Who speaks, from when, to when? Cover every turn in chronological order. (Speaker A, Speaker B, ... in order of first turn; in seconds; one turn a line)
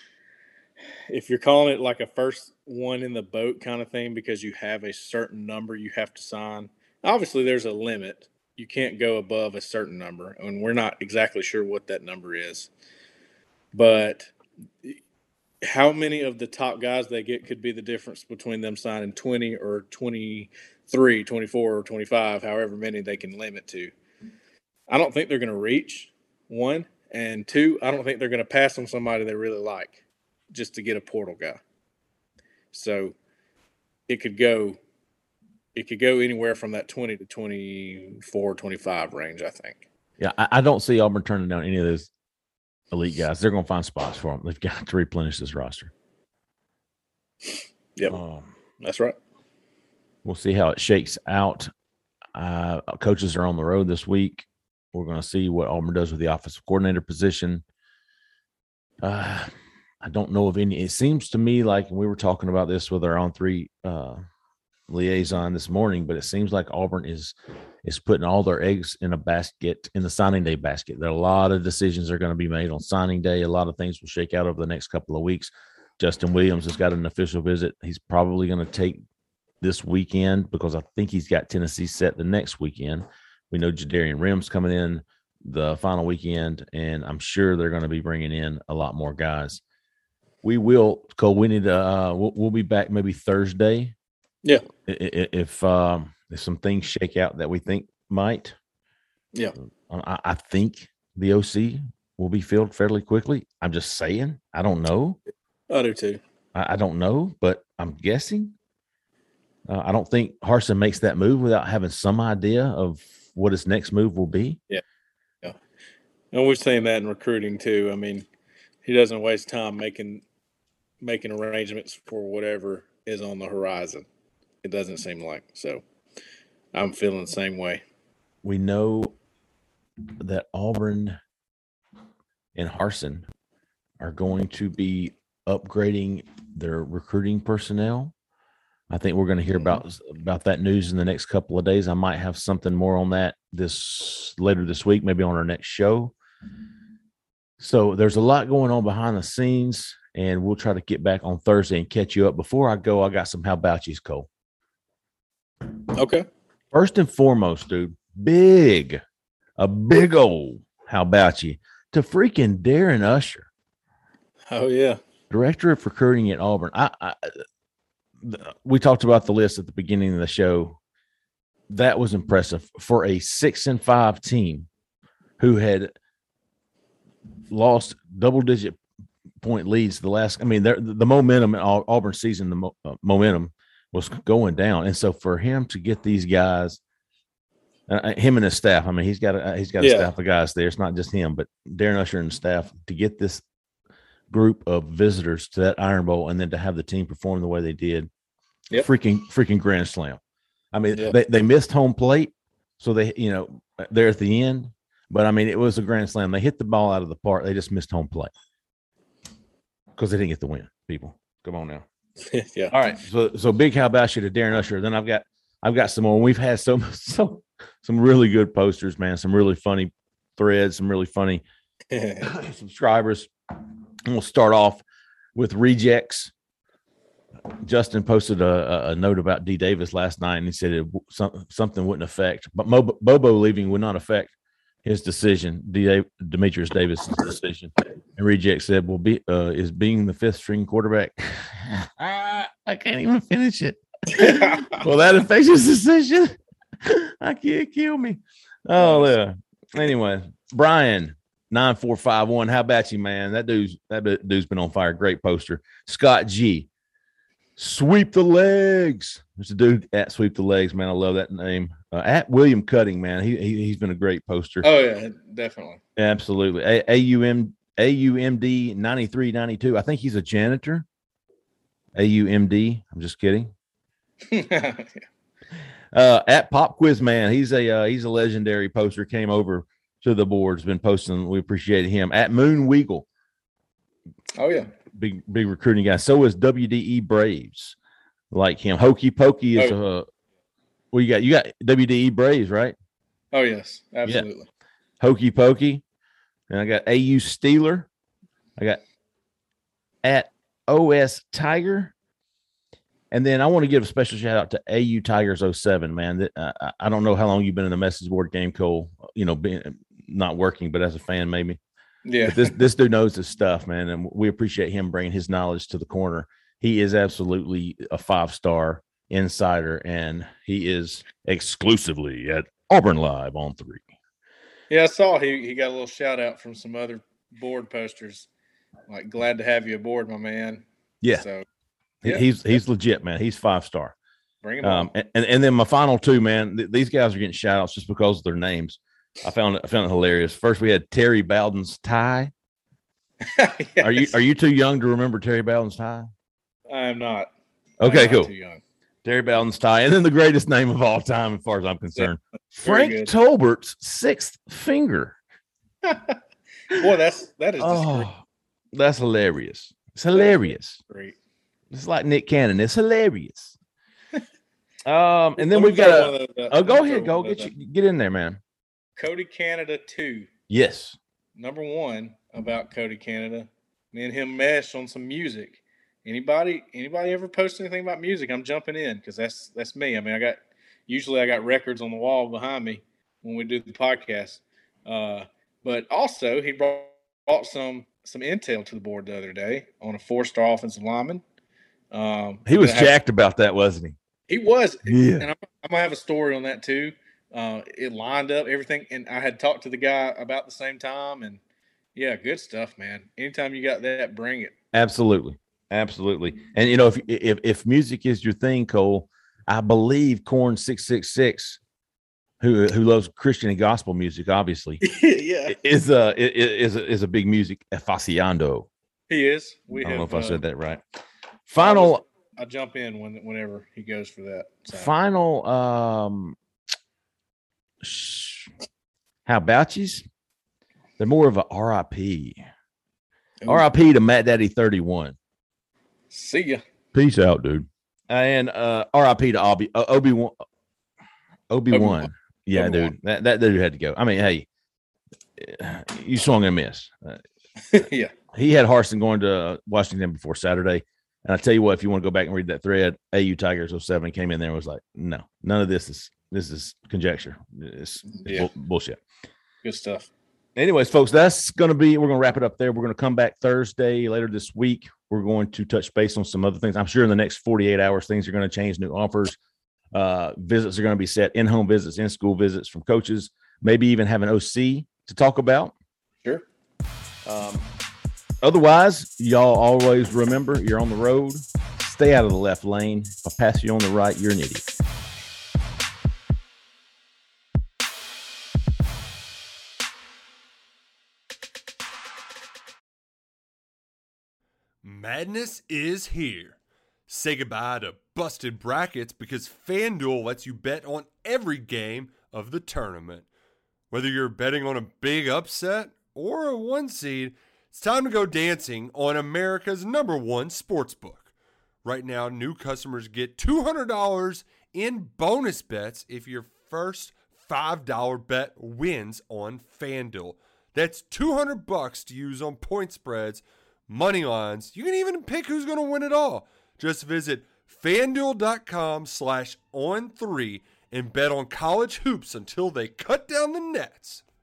Speaker A: 1.1-12.7
Speaker A: 13.7-14.3
Speaker A: 15.6-23.9
Speaker A: 24.9-30.0
Speaker A: 30.5-31.6
Speaker A: 32.7-33.1
Speaker A: 34.1-34.8
Speaker A: 35.8-39.8
Speaker B: 40.2-42.1
Speaker B: 42.9-45.9
Speaker B: 48.1-48.5
Speaker A: 48.8-49.2
Speaker B: 50.2-51.7
Speaker B: 52.4-57.6
Speaker B: 59.0-59.5
Speaker B: 60.0-64.2
Speaker B: 64.9-79.0
Speaker B: 79.6-89.6
Speaker B: 90.4-93.9
Speaker B: 94.9-98.6
Speaker B: 99.9-105.2
Speaker A: 105.7-106.2
Speaker B: 106.5-108.5
Speaker B: 109.7-114.6
Speaker A: 116.3-118.3
Speaker A: 118.8-120.2
Speaker A: 121.0-124.0
Speaker A: 124.6-125.8
Speaker A: 126.7-127.8
Speaker B: 128.4-129.1
Speaker B: 130.2-131.2
Speaker B: 132.6-133.3
Speaker B: 134.0-138.1
Speaker B: 138.9-146.1
Speaker B: 147.6-154.3
Speaker A: 155.9-156.3
Speaker B: 156.7-159.0
Speaker B: 159.6-163.5
Speaker A: 164.5-165.0
Speaker B: 165.3-167.4
Speaker B: 168.2-170.8
Speaker B: 171.7-174.7
Speaker B: 175.4-175.9
Speaker B: 177.5-178.8
Speaker B: 179.4-186.8
Speaker B: 187.9-193.4
Speaker A: 189.8-190.1
Speaker B: 194.3-198.1
Speaker B: 198.7-200.2
Speaker B: 200.7-208.3
Speaker B: 210.0-211.8
Speaker A: 212.3-212.9
Speaker B: 212.7-221.4
Speaker A: 221.9-222.3
Speaker B: 222.2-223.3
Speaker B: 224.1-224.8
Speaker B: 225.3-226.3
Speaker B: 227.6-234.3
Speaker B: 234.8-256.7
Speaker A: 244.1-244.8
Speaker A: 248.8-249.1
Speaker B: 257.6-264.7
Speaker A: 264.6-265.8
Speaker B: 266.0-270.9
Speaker B: 272.0-273.5
Speaker A: 274.3-275.1
Speaker B: 275.9-283.1
Speaker A: 284.4-284.7
Speaker B: 284.9-287.8
Speaker B: 288.3-290.1
Speaker B: 290.9-292.8
Speaker A: 293.3-294.5
Speaker B: 295.0-295.8
Speaker B: 296.5-297.9
Speaker B: 300.0-301.9
Speaker B: 303.1-311.6
Speaker A: 312.1-312.6
Speaker B: 312.2-323.9
Speaker A: 324.7-328.3
Speaker A: 328.9-331.5
Speaker B: 332.0-333.9
Speaker A: 334.4-334.9
Speaker B: 334.6-342.3
Speaker A: 343.2-344.1
Speaker B: 343.8-346.1
Speaker A: 346.7-348.6
Speaker B: 347.8-348.3
Speaker B: 349.0-355.2
Speaker A: 352.6-353.1
Speaker A: 355.8-356.2
Speaker A: 356.7-358.1
Speaker B: 357.6-360.8
Speaker A: 360.1-361.2
Speaker B: 361.7-363.6
Speaker B: 364.9-368.4
Speaker A: 365.4-367.5
Speaker A: 369.0-370.3
Speaker B: 370.5-371.0
Speaker A: 371.4-391.2
Speaker A: 391.9-392.9
Speaker B: 392.5-394.0
Speaker A: 394.3-401.4
Speaker B: 394.9-395.3
Speaker A: 401.9-404.5
Speaker B: 404.7-411.6
Speaker B: 412.4-414.8
Speaker A: 414.8-415.6
Speaker B: 415.5-418.7
Speaker A: 419.1-420.4
Speaker B: 419.8-420.8
Speaker B: 421.5-422.0
Speaker A: 421.6-424.9
Speaker B: 424.7-426.4
Speaker B: 427.8-428.5
Speaker B: 429.3-430.1
Speaker B: 431.0-432.4
Speaker B: 433.5-435.2
Speaker A: 436.1-436.6
Speaker B: 436.9-440.4
Speaker B: 441.5-444.5
Speaker A: 441.7-442.9
Speaker B: 445.4-447.2
Speaker A: 447.7-448.1
Speaker B: 448.3-459.0
Speaker A: 458.1-458.5
Speaker A: 459.6-460.1
Speaker B: 460.6-469.4
Speaker B: 469.9-475.7
Speaker B: 477.2-477.7
Speaker B: 478.4-484.7
Speaker C: 494.8-496.6
Speaker C: 497.1-503.3
Speaker C: 503.9-511.3
Speaker C: 511.8-534.2